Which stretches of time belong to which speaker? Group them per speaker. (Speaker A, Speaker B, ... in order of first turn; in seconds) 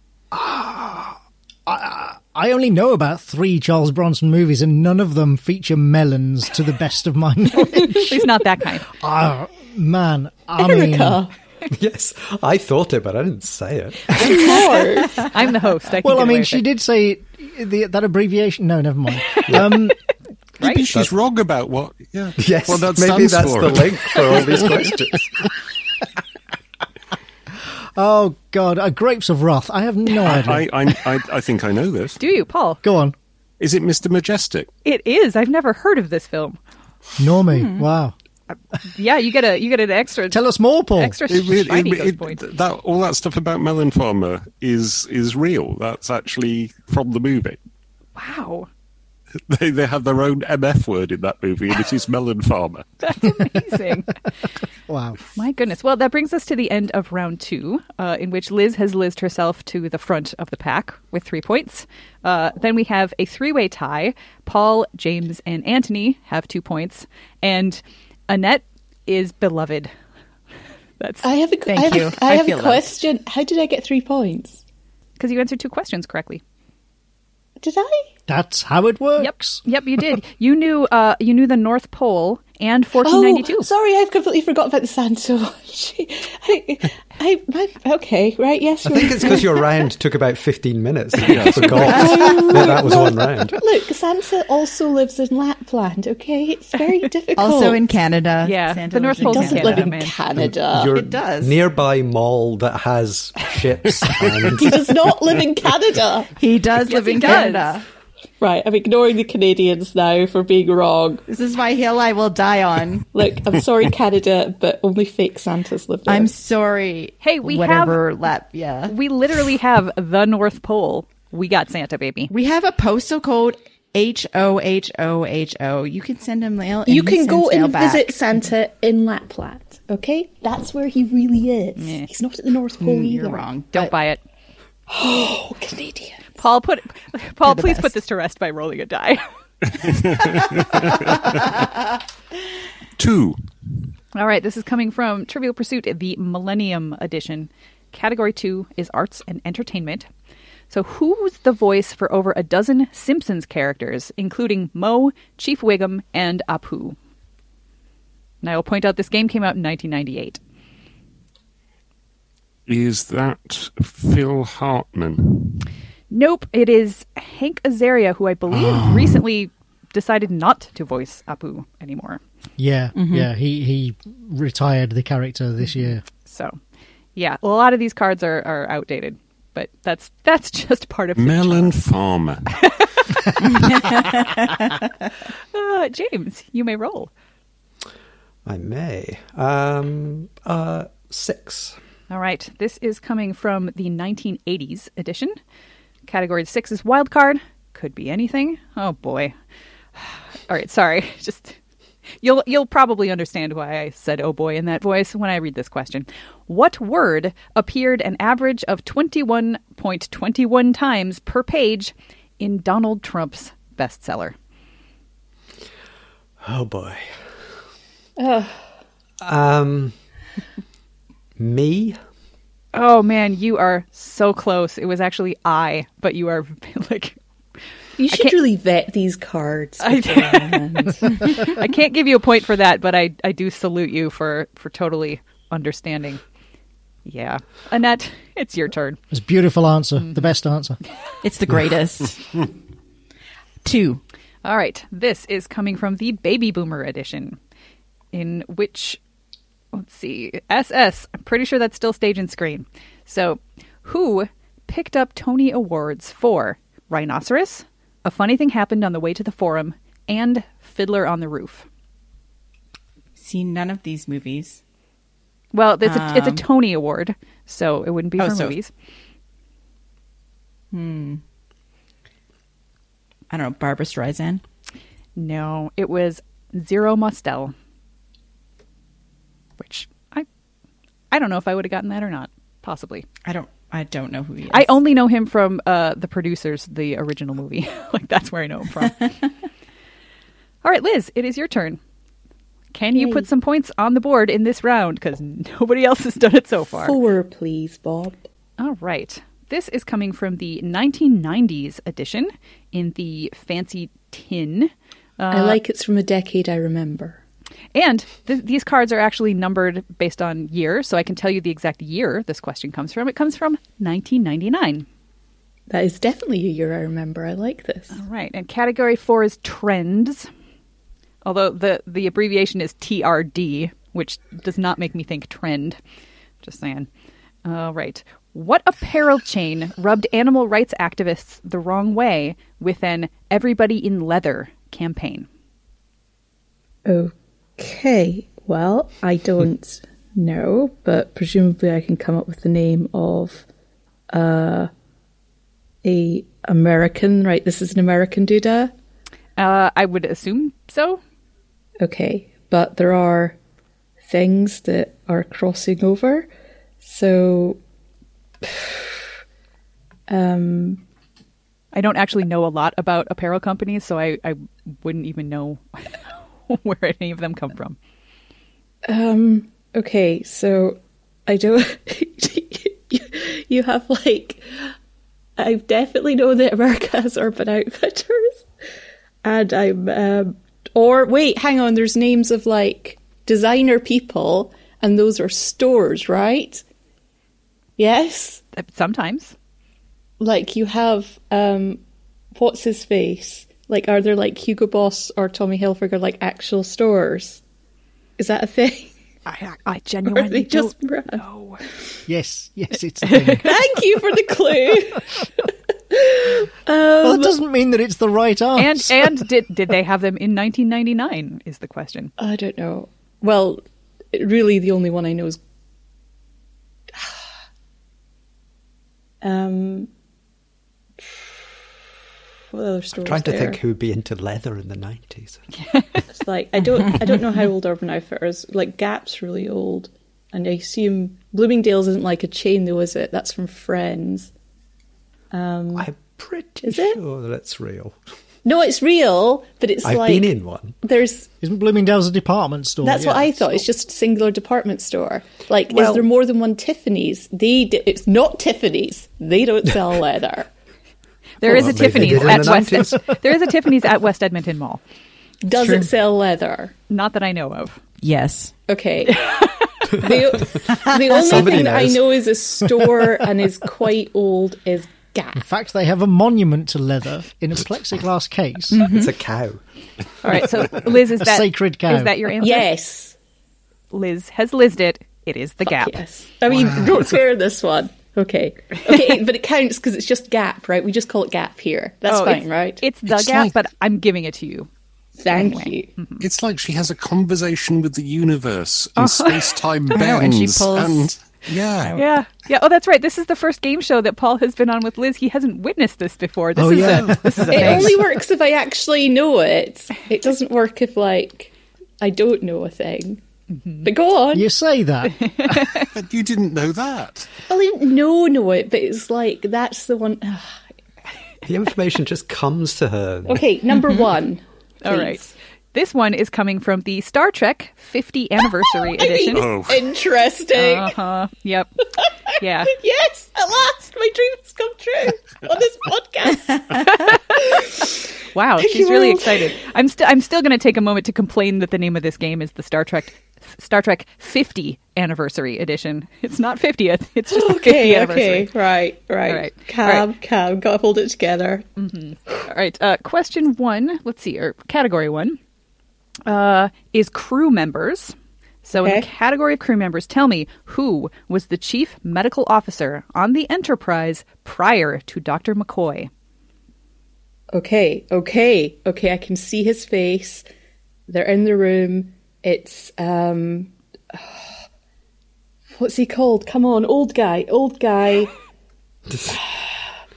Speaker A: 0.3-11.2, 16.0-20.0, 27.9-31.0, 32.8-33.1, 37.2-38.1, 40.3-41.2, 54.9-55.2, 78.3-79.6, 172.6-176.0, 239.1-240.8, 402.1-403.6, 407.0-409.2, 441.4-443.6, 465.3-468.9, 470.4-472.4, 496.6-498.0, 504.3-505.2
Speaker B: 7.9-8.9, 15.1-16.6, 20.6-20.9, 32.2-32.8, 34.8-36.6, 38.9-40.4, 40.9-42.4, 48.1-48.7, 53.0-54.1, 55.3-69.9, 71.0-72.1, 75.2-76.4, 79.2-83.7, 98.4-100.2, 106.8-107.8, 117.2-118.0, 118.9-122.3, 131.8-132.1, 133.7-134.2, 136.4-139.2, 144.1-150.1, 150.7-156.9, 158.4-160.4, 166.1-172.2, 176.2-176.6, 177.2-181.8, 182.5-183.6, 185.5-187.1, 192.1-195.4, 196.1-199.3, 200.0-201.6, 202.2-214.3, 222.7-227.2, 229.8-236.2, 237.0-239.0, 240.0-240.3, 244.4-247.4, 248.1-249.0, 249.7-261.7, 265.5-268.7, 275.1-277.5, 279.6-280.2, 281.1-283.1, 284.5-289.1, 290.6-291.8, 292.7-297.0, 298.6-305.6, 307.7-314.9, 317.9-320.3, 321.2-325.8, 326.4-326.9, 327.4-335.3, 349.4-351.0, 361.7-367.8, 388.6-389.3, 399.2-401.6, 403.0-403.5, 408.6-412.1, 425.6-426.0, 451.4-454.8, 456.9-457.8, 459.1-460.1, 470.2-472.7, 473.9-476.0, 482.1-484.7, 485.3-486.2, 489.0-489.6, 491.9-498.0, 503.6-503.9, 505.2-505.9, 514.8-519.5, 520.5-521.7, 522.4-522.7, 527.1-527.5, 528.3-538.5, 539.2-540.1, 541.8-545.4, 546.2-556.1
Speaker C: 10.6-11.3, 14.1-15.3, 71.2-74.6, 77.6-78.1, 83.0-89.7, 91.9-97.9, 99.2-101.0, 104.6-106.3, 108.4-111.2, 113.1-116.3, 126.8-133.9, 134.9-136.4, 218.2-218.6, 228.0-231.2, 292.9-293.3, 296.8-298.2, 305.3-307.2, 315.7-317.9, 336.9-343.4, 344.1-344.7, 345.8-348.7, 351.8-353.4, 354.1-356.3, 356.8-357.6, 358.4-358.9, 360.1-360.8, 368.9-374.7, 375.4-378.4, 379.2-386.6, 387.8-388.4, 390.2-391.8, 392.3-397.4, 398.2-398.9, 400.1-401.2, 403.4-407.4, 412.2-415.4, 419.2-419.9, 421.0-421.3, 422.5-423.6, 426.1-434.3, 435.3-435.9, 436.6-437.0, 438.4-441.3, 442.8-450.5, 455.4-456.8, 458.7-459.3, 460.0-465.4, 472.4-473.1, 475.6-482.8, 485.2-485.9, 497.5-503.2, 503.8-504.5, 507.5-510.6, 513.3-515.3, 518.8-521.0, 522.0-528.0, 528.6-529.6, 537.3-541.7, 548.8-549.1, 557.5-560.5, 561.1-564.4, 565.7-568.3
Speaker D: 11.7-14.2, 19.5-19.7, 22.4-25.3, 88.8-93.6, 100.3-105.1, 188.4-191.8, 216.4-217.1, 219.2-219.9, 221.4-222.0, 423.0-425.4, 435.7-437.9, 439.8-440.8, 451.4-453.2, 461.1-462.2, 468.8-469.6, 511.4-513.5, 569.1-569.4
Speaker E: 20.6-25.0, 30.2-32.2, 33.6-34.7, 41.3-47.6, 49.5-52.8, 91.2-92.1, 104.0-104.8, 139.8-141.5, 143.0-143.4, 162.7-165.6, 168.5-169.2, 181.2-182.4, 476.5-476.9, 483.1-483.5, 486.2-492.0, 496.8-497.1, 505.7-507.3, 519.3-519.9
Speaker F: 37.5-37.9, 71.7-72.9, 91.8-92.5, 97.4-99.9, 100.9-101.6, 106.3-107.8, 111.3-113.1, 116.1-118.9, 122.3-128.3, 132.8-133.8, 137.4-137.9, 172.9-173.3, 183.6-184.0, 241.2-242.5, 243.6-244.0, 263.2-264.6, 265.8-266.4, 268.2-268.6, 270.7-271.2, 273.3-274.4, 283.2-284.8, 455.6-455.9, 458.0-458.6, 468.7-469.1, 489.9-491.1, 491.8-492.0